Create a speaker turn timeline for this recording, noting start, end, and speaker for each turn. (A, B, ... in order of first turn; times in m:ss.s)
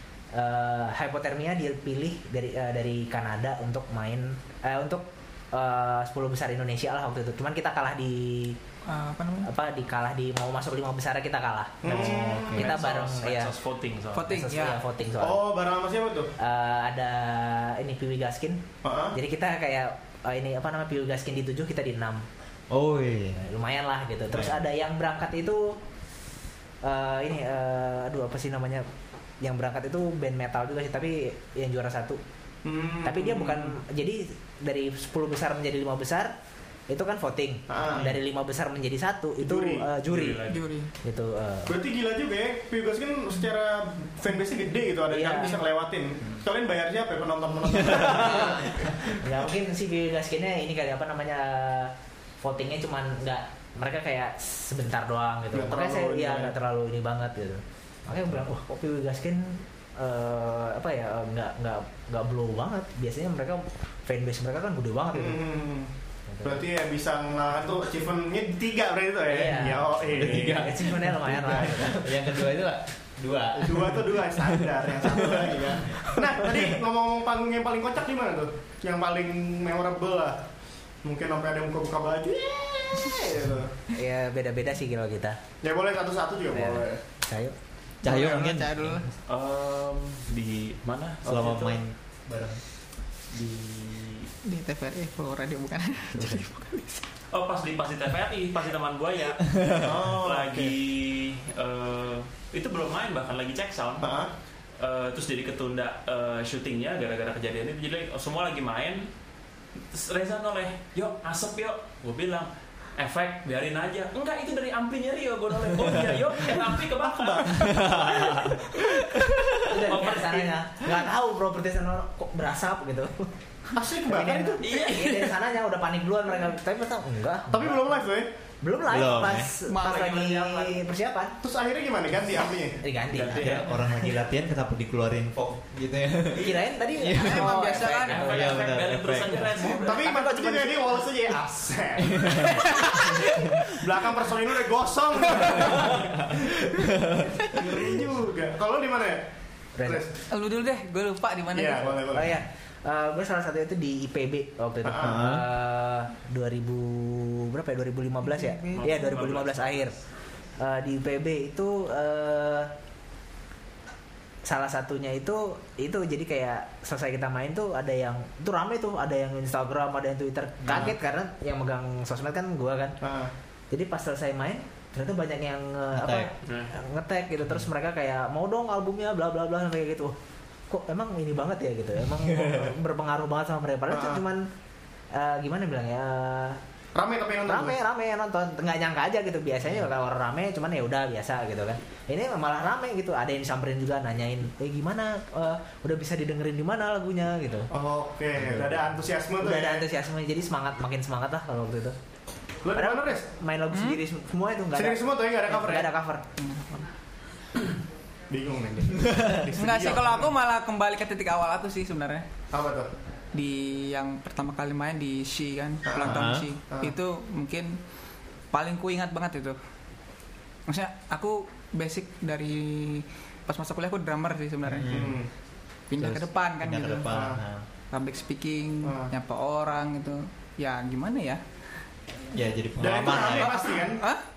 0:00.3-0:08.6 A
0:08.8-0:09.5 B
0:09.4-0:13.5 A
0:11.8-0:12.6 C
0:11.9-0:14.3 D
0:14.1-0:14.8 B
0:14.2-0:15.4 A
0:15.2-0:16.3 C
0:16.4-0:22.2 A
0:18.8-0:19.2 C
0:22.7-0:23.4 E
0:23.4-0:25.8 A
0:24.3-0:24.6 E
0:26.8-0:28.8 A
0:29.4-0:32.2 A
0:32.6-0:33.8 C
0:33.0-0:36.3 A
0:36.9-0:40.5 A
0:37.7-0:38.1 C
0:39.4-0:39.8 C
0:40.0-0:40.6 D
0:40.5-0:40.9 B
0:41.0-0:41.7 A
0:41.7-0:49.2 C
0:45.1-0:45.6 A
0:47.9-0:48.5 A
0:49.2-1:05.4 A
0:55.5-0:56.5 C
1:05.1-1:05.9 C
1:06.3-1:06.6 A
1:06.4-1:10.7 C
1:09.3-1:12.2 A
1:10.1-1:14.5 E
1:11.3-1:11.7 C
1:13.6-1:20.4 C
1:15.2-1:15.4 E
1:16.0-1:16.6 E
1:21.0-1:23.7 C
1:23.9-1:25.4 A
1:25.6-1:27.0 C
1:26.5-1:27.5 A
1:28.0-1:29.1 B
1:28.0-1:29.0 E
1:29.3-1:31.2 D
1:31.2-1:31.8 C
1:31.2-1:32.6 E
1:33.3-1:34.3 D
1:34.4-1:37.1 B
1:37.3-1:44.2 D
1:39.5-1:39.9 E
1:39.8-1:40.7 C
1:44.0-1:44.3 C
1:44.8-1:49.1 D
1:49.9-1:58.6 D
1:55.8-1:56.2 E
1:57.0-1:58.4 C
1:57.5-1:59.6 E
1:59.7-2:03.3 A
1:59.9-2:00.6 D
2:03.7-2:04.8 C
2:04.1-2:07.9 A
2:04.6-2:05.3 D
2:07.5-2:08.3 C
2:08.6-2:11.4 A
2:08.9-2:09.5 E
2:09.6-2:10.8 B
2:11.4-2:12.8 C
2:12.8-2:13.6 A
2:13.1-2:13.7 D
2:13.3-2:17.6 E
2:16.4-2:18.5 A
2:17.2-2:18.4 B
2:17.7-2:20.0 D
2:18.1-2:19.5 E
2:19.5-2:20.6 B
2:19.6-2:22.6 C
2:20.1-2:20.7 A
2:22.4-2:23.8 B
2:23.7-2:26.9 C
2:25.3-2:25.8 B
2:27.4-2:29.2 C
2:29.8-2:30.0 A
2:29.8-2:30.2 C
2:30.3-2:32.0 B
2:31.5-2:32.4 C
2:32.1-2:39.9 A
2:34.8-2:35.2 C
2:35.0-2:35.4 E
2:38.3-2:39.2 B
2:38.8-2:40.0 D
2:40.6-2:42.7 A
2:44.4-2:53.0 A
2:50.6-2:50.9 E
2:53.0-2:53.3 C
2:53.7-3:00.1 A
2:55.9-2:56.3 E
2:56.4-2:56.7 D
3:00.7-3:04.4 A
3:03.9-3:04.2 C
3:05.1-3:06.6 A
3:06.9-3:07.8 C
3:07.4-3:17.7 A
3:17.7-3:19.9 C
3:18.4-3:18.8 E
3:19.4-3:22.0 A
3:22.6-3:23.2 C
3:22.7-3:26.2 A
3:23.7-3:24.0 B
3:24.7-3:25.9 C
3:26.4-3:26.9 B
3:28.3-3:30.3 C
3:29.6-3:32.2 B
3:32.5-3:32.9 C
3:33.3-3:37.8 B
3:35.9-3:36.9 C
3:36.0-3:36.4 E
3:38.5-3:39.6 B
3:40.7-3:45.1 B
3:44.6-3:45.2 E
3:44.9-3:45.3 C
3:45.9-3:47.2 B
3:46.0-3:47.6 E
3:47.1-3:47.4 C
3:47.9-3:51.4 B
3:48.8-3:49.1 C
3:52.3-3:53.6 E
3:52.8-3:54.1 C
3:53.0-3:54.2 B